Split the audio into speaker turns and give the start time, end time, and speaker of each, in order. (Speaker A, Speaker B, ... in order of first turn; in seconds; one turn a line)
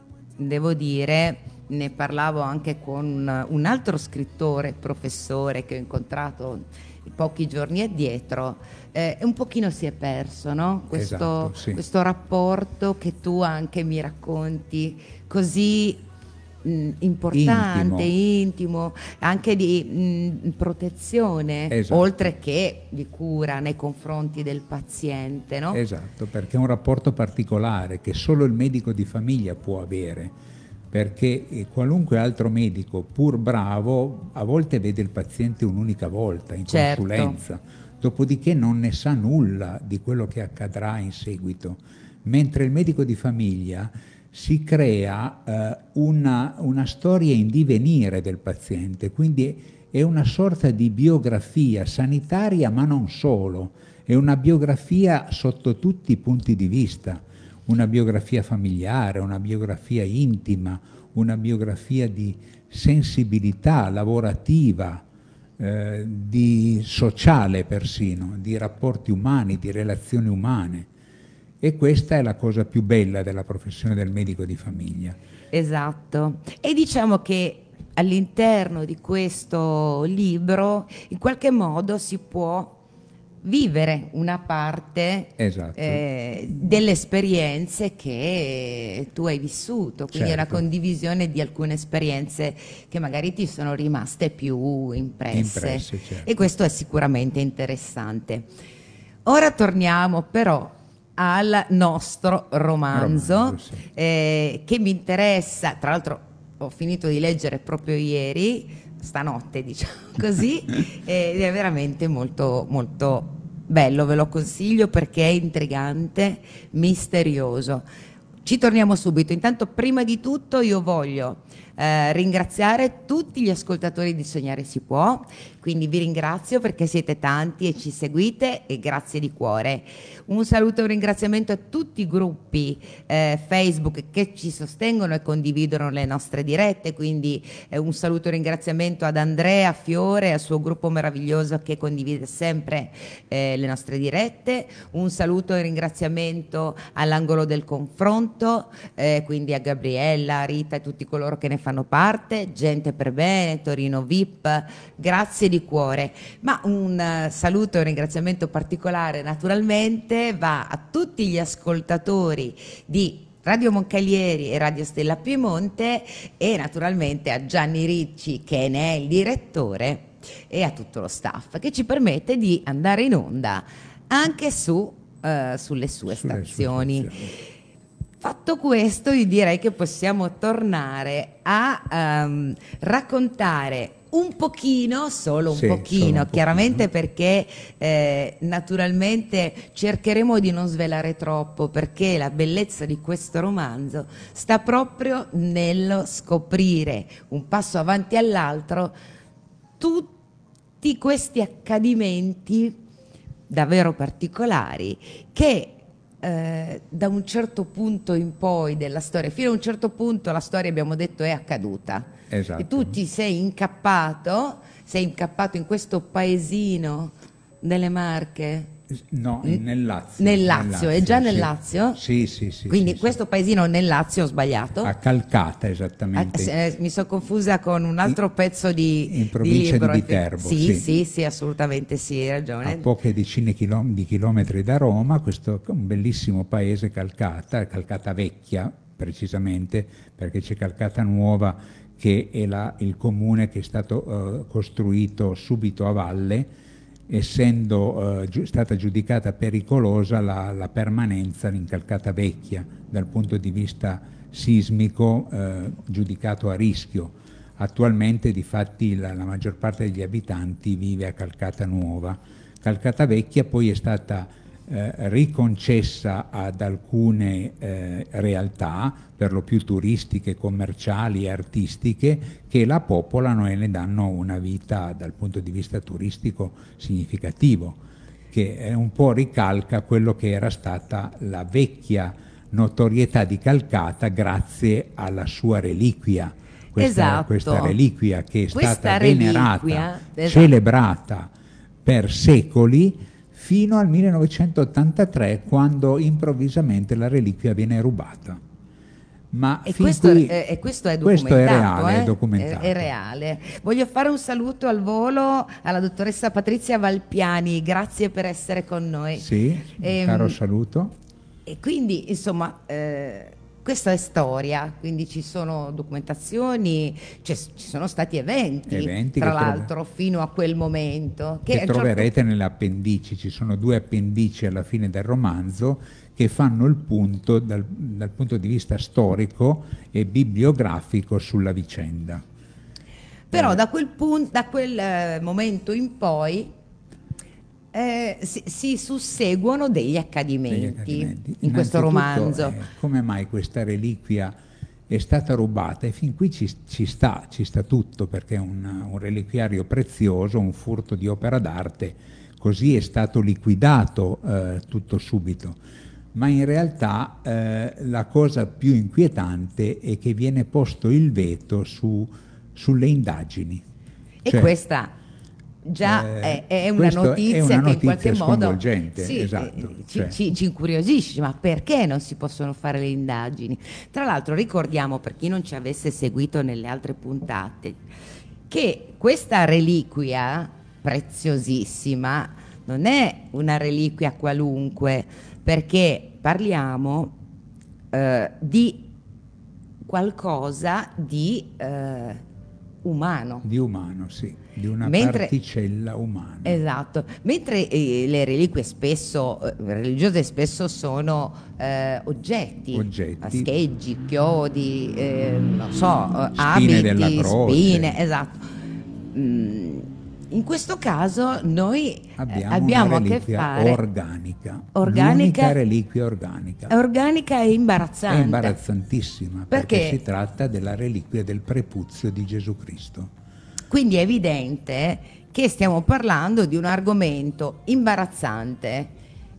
Speaker A: 0.4-16.0
Speaker B: 10.9-11.8
Speaker A: 16.6-25.8
Speaker B: 17.3-18.1
Speaker B: 21.7-22.3
Speaker B: 25.7-30.4
Speaker B: 30.9-65.0
Speaker A: 36.7-37.4
Speaker B: 65.6-70.9
Speaker B: 71.6-75.2
Speaker A: 75.5-82.8
Speaker A: 83.4-98.5
Speaker B: 85.4-86.0
Speaker B: 90.1-90.6
Speaker B: 95.3-96.5
Speaker A: 99.3-117.9
Speaker B: 102.9-103.8
Speaker A: 118.5-177.3
Speaker B: 176.1-177.3
Speaker A: 178.2-198.9
Speaker B: 185.5-186.9
Speaker A: 199.8-200.1
Speaker A: 200.8-202.8
Speaker A: 203.5-218.7
Speaker B: 212.3-213.0
Speaker B: 218.9-223.2
Speaker A: 220.2-222.0
Speaker A: 222.7-224.9
Speaker B: 224.8-226.5
Speaker A: 226.2-232.9
Speaker B: 229.1-230.8
Speaker B: 232.6-246.5
Speaker B: 247.1-277.8
Speaker B: 278.3-291.3
Speaker A: 286.8-287.8
Speaker A: 288.5-290.6
Speaker B: 291.8-298.4
Speaker B: 299.3-300.4
Speaker A: 299.6-309.3
Speaker B: 301.0-302.9
Speaker B: 309.2-310.9
Speaker A: 309.8-310.4
Speaker A: 311.5-322.1
Speaker B: 318.7-319.7
Speaker B: 321.5-332.2
Speaker A: 333.3-336.5
Speaker B: 333.3-333.6
Speaker A: 337.7-342.6
Speaker B: 340.5-344.4
Speaker B: 344.9-355.6
Speaker B: 356.1-363.6
Speaker A: 364.2-364.9
Speaker B: 364.3-364.5
Speaker A: 365.6-377.8
Speaker B: 365.8-370.2
Speaker A: 378.5-387.2
Speaker A: 387.9-388.9
Speaker A: 389.9-392.2
Speaker A: 392.8-393.5
Speaker B: 393.4-396.6
Speaker A: 394.8-395.3
Speaker A: 396.4-408.4
Speaker B: 402.7-403.5
Speaker B: 406.4-408.0
Speaker A: 409.1-413.8
Speaker B: 412.2-416.7
Speaker A: 414.8-415.6
Speaker A: 416.7-418.6
Speaker B: 418.1-423.1
Speaker A: 419.5-420.0
Speaker A: 423.7-428.9